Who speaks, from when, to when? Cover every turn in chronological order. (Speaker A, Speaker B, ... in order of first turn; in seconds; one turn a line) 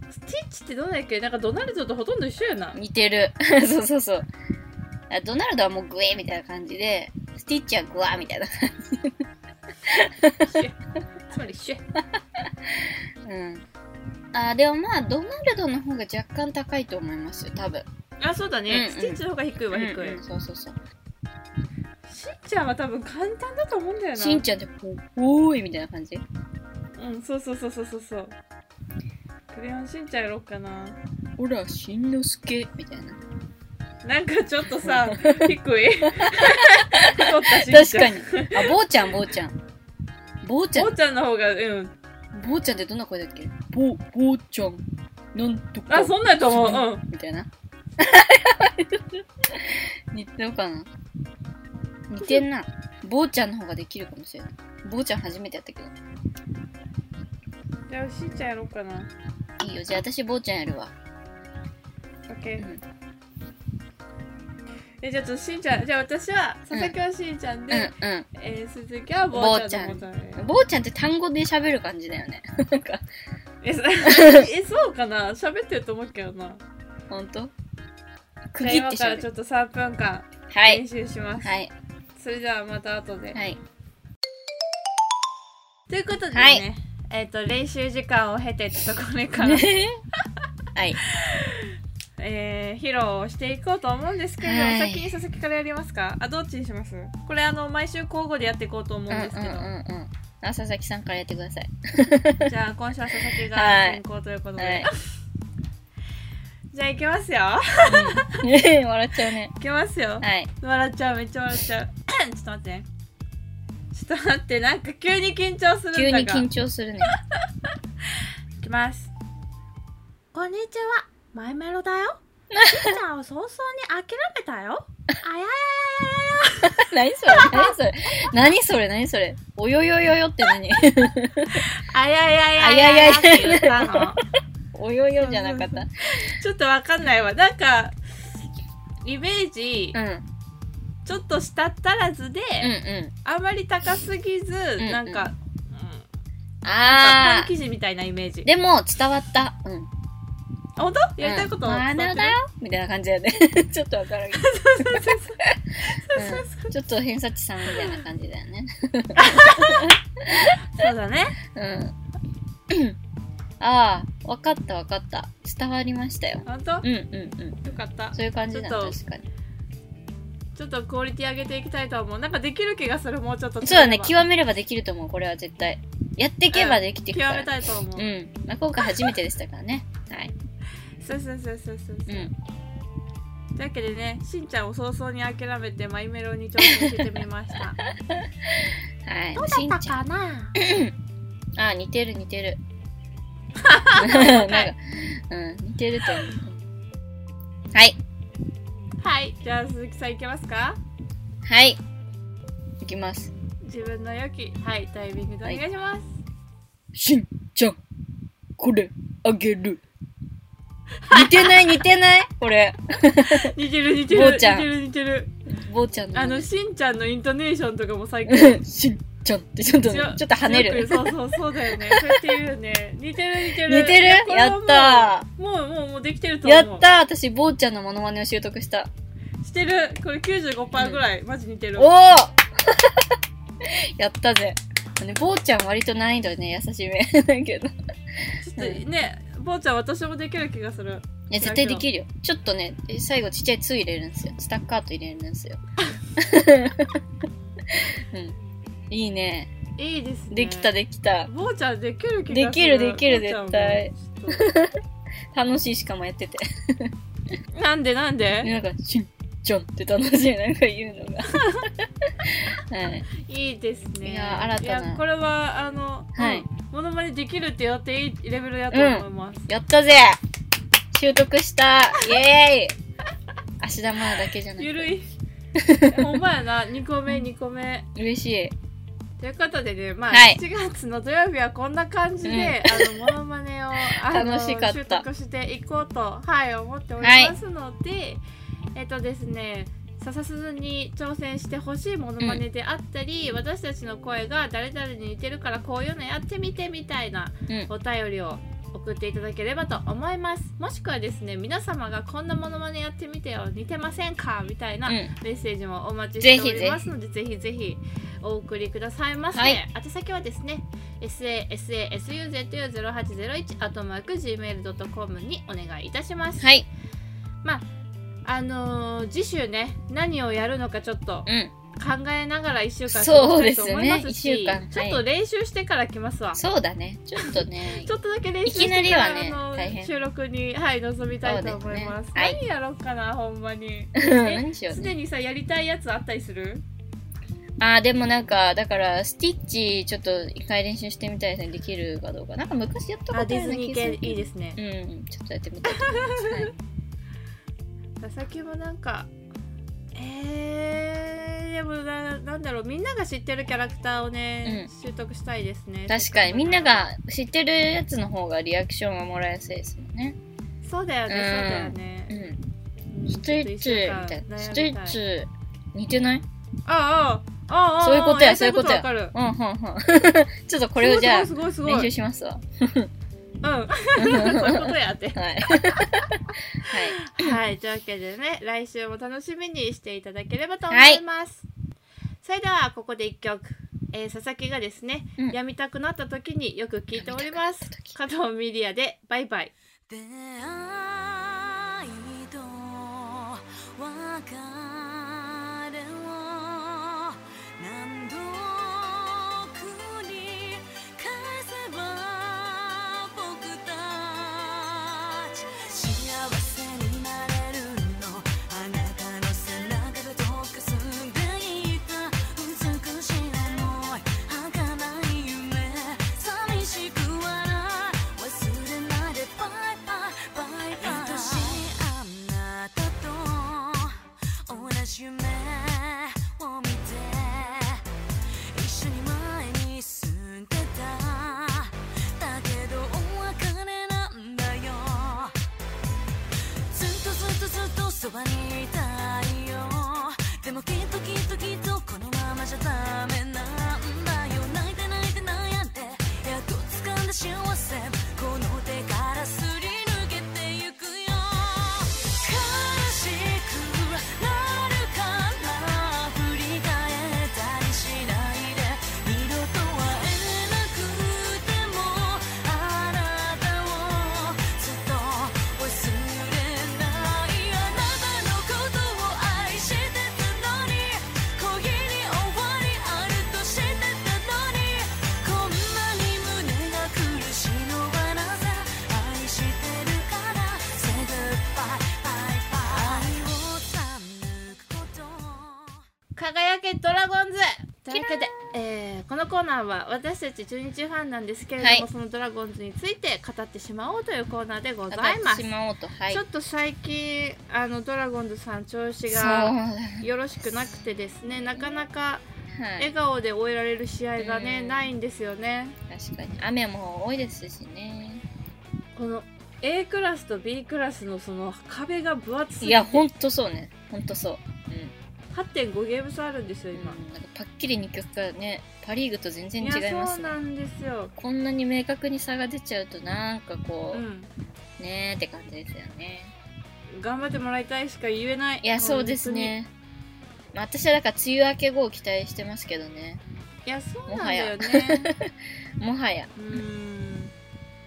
Speaker A: 0.1-2.8
Speaker B: 2.7-4.3
Speaker B: 5.1-9.2
Speaker B: 9.8-10.6
Speaker A: 10.4-10.8
Speaker A: 11.3-11.8
Speaker B: 12.4-13.7
Speaker B: 14.3-17.9
Speaker A: 18.2-20.2
Speaker B: 18.7-20.8
Speaker A: 22.1-24.4
Speaker B: 24.1-26.2
Speaker A: 26.9-28.4
Speaker A: 29.5-31.0
Speaker B: 31.4-33.2
Speaker A: 34.0-38.7
Speaker B: 34.8-35.5
Speaker B: 36.2-39.6
Speaker B: 40.4-40.9
Speaker A: 40.7-41.9
Speaker B: 42.3-50.9
Speaker A: 45.9-47.0
Speaker B: 52.1-55.9
Speaker A: 57.9-59.1
Speaker B: 59.6-60.9
Speaker A: 62.3-62.6
Speaker B: 62.6-62.8
Speaker A: 65.0-70.5
Speaker B: 67.7-68.3
Speaker B: 69.3-73.0
Speaker A: 73.6-76.6
Speaker B: 74.0-74.5
Speaker B: 77.1-77.5
Speaker B: 78.5-79.2
Speaker A: 78.6-81.5
Speaker B: 80.5-80.8
Speaker B: 81.4-81.7
Speaker A: 82.2-83.4
Speaker B: 83.3-83.6
Speaker A: 85.9-89.7
Speaker B: 86.3-86.6
Speaker B: 89.4-90.0
Speaker A: 91.2-91.6
Speaker A: 92.2-99.7
Speaker B: 94.4-95.1
Speaker B: 99.1-102.5
Speaker A: 102.4-104.9
Speaker B: 103.5-104.0
Speaker B: 104.6-104.9
Speaker A: 106.7-108.4
Speaker B: 107.9-109.5
Speaker A: 109.6-112.9
Speaker B: 110.2-110.5
Speaker A: 113.9-116.5
Speaker B: 115.9-117.1
Speaker A: 118.6-119.1
Speaker A: 120.3-127.7
Speaker B: 122.5-123.0
Speaker B: 126.7-131.6
Speaker A: 131.5-134.2
Speaker B: 132.6-135.9
Speaker A: 135.2-138.0
Speaker A: 139.0-140.0
Speaker B: 139.9-140.3
Speaker A: 141.0-142.7
Speaker B: 142.6-143.1
Speaker A: 143.2-146.0
Speaker B: 144.8-145.3
Speaker B: 146.6-147.5
Speaker A: 146.8-148.5
Speaker B: 148.4-149.9
Speaker A: 150.8-152.4
Speaker B: 151.2-160.8
Speaker A: 154.4-156.7
Speaker A: 157.7-158.0
Speaker A: 159.2-161.3
Speaker B: 161.5-161.9
Speaker B: 162.7-163.0
Speaker B: 163.6-169.2
Speaker A: 166.4-166.9
Speaker A: 167.6-169.0
Speaker A: 170.6-174.2
Speaker B: 173.6-180.3
Speaker A: 176.5-178.1
Speaker A: 181.0-182.3
Speaker B: 182.1-182.3
Speaker A: 183.6-187.8
Speaker B: 186.6-187.0
Speaker B: 188.1-190.0
Speaker A: 189.3-190.5
Speaker B: 190.6-190.9
Speaker B: 191.6-192.6
Speaker A: 193.6-194.7
Speaker B: 193.9-196.6
Speaker B: 197.7-198.0
Speaker A: 199.0-200.8
Speaker B: 201.4-201.8
Speaker B: 202.8-203.3
Speaker A: 203.6-206.2
Speaker B: 206.9-207.8
Speaker B: 208.6-209.8
Speaker A: 211.1-211.7
Speaker B: 211.1-213.5
Speaker A: 213.2-215.3
Speaker B: 214.1-214.7
Speaker B: 215.4-216.5
Speaker A: 216.1-218.6
Speaker B: 218.2-221.2
Speaker A: 219.8-226.8
Speaker B: 221.7-222.2
Speaker B: 223.5-225.3
Speaker B: 226.4-228.9
Speaker A: 229.4-231.9
Speaker B: 230.8-231.0
Speaker B: 231.8-238.8
Speaker A: 238.4-241.8
Speaker B: 241.3-245.6
Speaker B: 246.2-247.0
Speaker B: 247.7-248.4
Speaker B: 248.9-249.5
Speaker A: 249.8-250.7
Speaker B: 250.3-251.3
Speaker A: 251.3-254.5
Speaker B: 252.3-256.9
Speaker A: 257.5-258.5
Speaker B: 258.4-263.1
Speaker A: 263.2-269.4
Speaker B: 264.0-265.0
Speaker B: 266.1-266.4
Speaker B: 268.7-270.2
Speaker B: 270.9-272.8
Speaker B: 273.6-274.9
Speaker A: 274.6-275.1
Speaker B: 275.5-276.1
Speaker A: 275.9-277.9
Speaker B: 277.9-278.5
Speaker A: 279.2-288.2
Speaker B: 280.1-280.4
Speaker B: 282.2-283.1
Speaker B: 283.8-285.1
Speaker B: 287.0-287.3
Speaker A: 288.7-316.5
Speaker B: 304.9-305.1
Speaker B: 306.2-306.9
Speaker B: 309.3-309.6
Speaker B: 316.4-316.7
Speaker A: 318.2-326.4
Speaker B: 321.2-321.5
Speaker B: 322.9-325.0
Speaker B: 326.3-329.9
Speaker A: 327.2-336.6
Speaker B: 331.2-332.4
Speaker B: 333.9-334.9
Speaker B: 337.6-346.5
Speaker A: 343.1-344.6
Speaker A: 345.7-346.5
Speaker A: 348.0-349.1
Speaker A: 349.9-356.9
Speaker B: 354.4-354.7
Speaker B: 355.9-360.2
Speaker A: 360.6-362.2
Speaker B: 361.1-362.4
Speaker A: 362.9-365.0
Speaker B: 363.1-366.2
Speaker A: 366.6-369.1
Speaker B: 367.8-372.9
Speaker A: 370.8-371.9
Speaker A: 373.4-375.8
Speaker B: 374.0-377.4
Speaker A: 376.6-381.4
Speaker B: 380.7-381.0
Speaker A: 382.2-389.5
Speaker B: 386.9-388.0
Speaker C: 389.9-427.8
Speaker C: 428.5-435.3
Speaker C: 436.7-485.8
Speaker A: 486.1-495.5
Speaker B: 487.9-488.3
Speaker B: 491.6-491.9
Speaker B: 494.9-496.2
Speaker A: 496.1-502.2
Speaker B: 499.1-500.8
Speaker B: 502.5-502.9
Speaker A: 502.8-505.8
Speaker B: 504.2-504.9
Speaker B: 505.9-508.2
Speaker A: 508.9-513.0
Speaker B: 512.6-514.9
Speaker A: 515.3-517.0
Speaker B: 516.7-520.4
Speaker A: 519.6-521.1
Speaker B: 521.2-524.0
Speaker A: 523.9-524.3
Speaker B: 524.8-526.3
Speaker A: 526.9-529.5
Speaker B: 528.6-529.7
Speaker B: 530.5-533.2
Speaker A: 533.6-535.1
Speaker B: 534.1-536.6
Speaker A: 536.4-537.3